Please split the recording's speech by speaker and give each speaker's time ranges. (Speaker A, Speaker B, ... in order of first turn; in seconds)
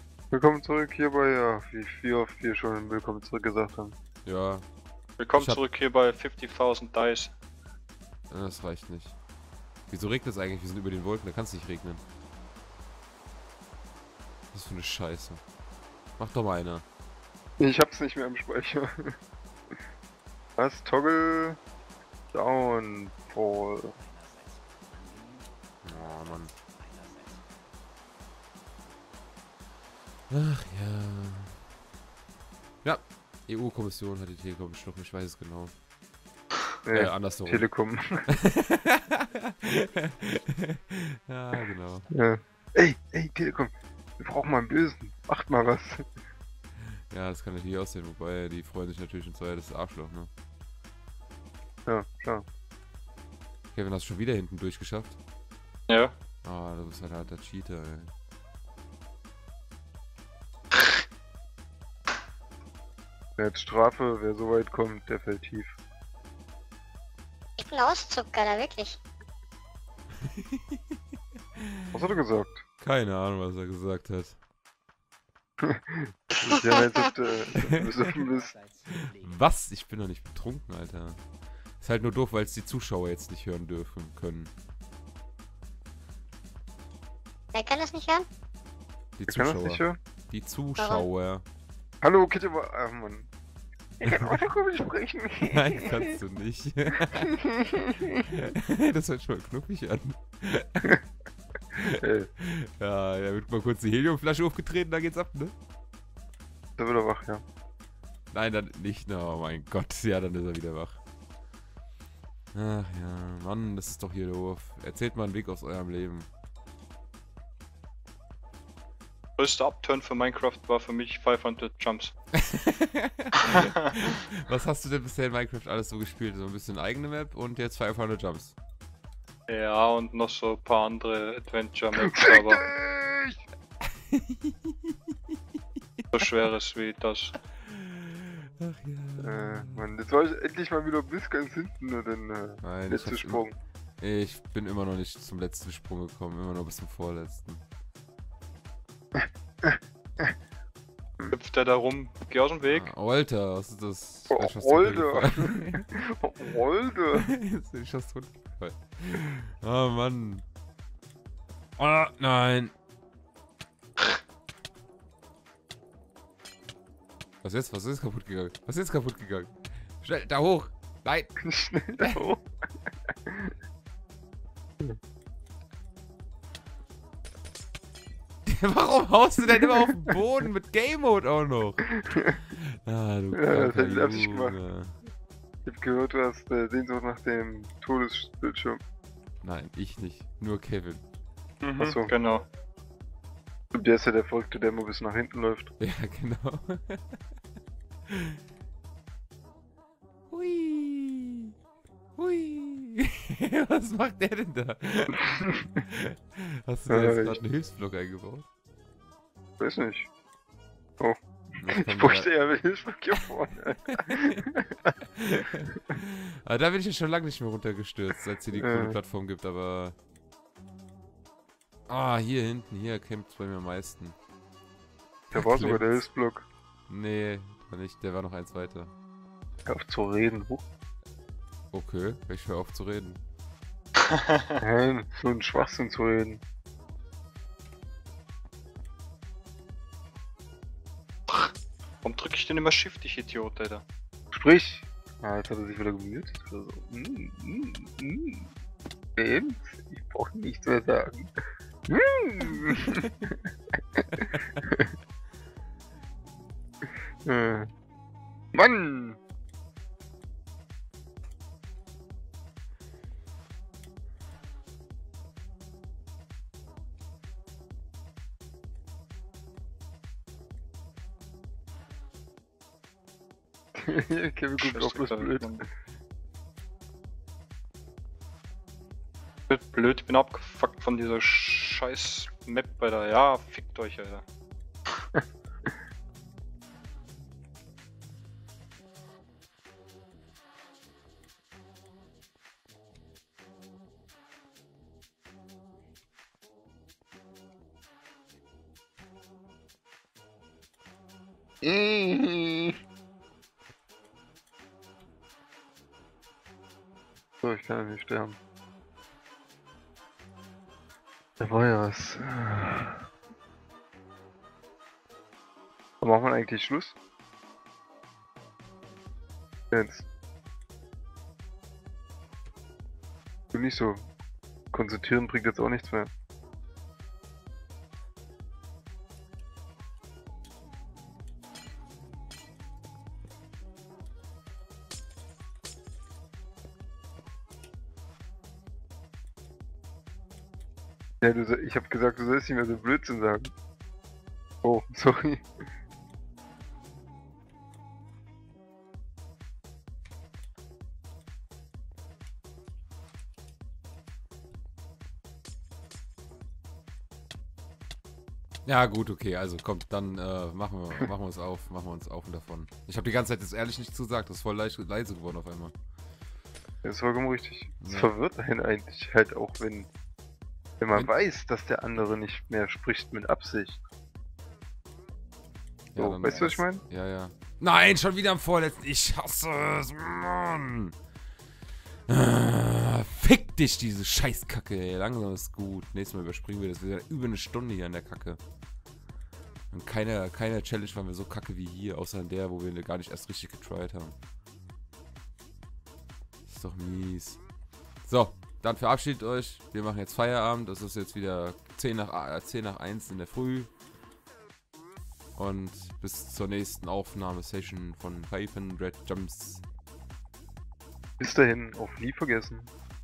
Speaker A: 0.3-4.0, 17.6-19.1, 20.6-21.6, 22.3-23.9, 36.8-38.3, 42.1-46.1, 51.9-52.5, 63.4-65.8, 71.9-72.6, 75.6-78.6, 89.3-90.0, 92.0-93.3, 94.0-96.2, 97.3-98.4, 101.8-102.3, 106.8-107.4, 131.9-133.4, 139.2-143.6, 149.6-150.3, 154.3-157.3, 171.4-172.4, 173.3-173.5, 182.1-182.4, 183.3-184.6, 185.6-188.8, 191.8-192.1, 193.7-195.7, 206.9-207.4, 209.6-210.1, 211.0-214.8, 218.5-219.0, 225.3-226.4, 229.7-230.6, 234.6-236.4, 244.3-248.5, 249.2-251.3, 251.9-253.4, 254.0-254.9, 257.2-257.7, 258.5-259.2, 273.7-275.5, 301.6-302.7, 307.4-308.4, 311.4-313.0, 316.0-316.9, 319.7-320.1, 323.5-324.0, 324.7-326.1, 341.2-343.5, 344.6-345.4, 366.8-369.9, 370.8-373.8, 376.0-376.8, 411.2-412.7
Speaker B: 4.2-4.6, 5.3-5.6, 8.3-9.2, 9.9-12.0, 14.5-15.4, 16.2-16.9, 25.8-26.5, 30.3-31.6, 32.8-35.7, 36.9-37.7, 38.3-42.1, 47.1-50.3, 53.7-55.2, 56.4-58.1, 70.4-70.8, 71.6-72.0, 72.8-74.4, 78.9-81.2, 81.8-84.5, 89.2-91.5, 94.1-94.4, 95.4-97.3, 98.2-101.0, 101.7-105.5, 108.3-111.0, 112.5-116.3, 122.3-128.5, 134.1-135.1, 136.0-136.2, 137.5-139.9, 142.6-143.4, 144.0-147.6, 152.7-155.8, 157.1-160.4, 161.8-162.7, 167.4-171.3, 178.4-181.9, 182.5-185.0, 189.4-191.0, 195.8-197.2, 198.1-198.4, 200.3-201.5, 202.2-205.3, 205.8-208.4, 211.6-212.3, 213.9-214.3, 215.2-219.9, 221.9-224.2, 225.3-226.0, 226.9-228.9, 231.7-233.2, 358.6-365.7, 367.8-368.1, 375.9-380.9, 382.1-388.4, 389.7-394.1, 396.5-397.4, 398.0-403.7, 405.4-409.6
Speaker C: 5.2-7.3, 55.9-56.1, 119.4-122.1, 129.5-132.7, 136.1-137.3, 151.3-152.9, 191.6-192.4, 242.0-243.8, 274.6-275.6, 279.5-284.2
Speaker D: 67.6-69.0, 87.5-88.3, 90.8-91.0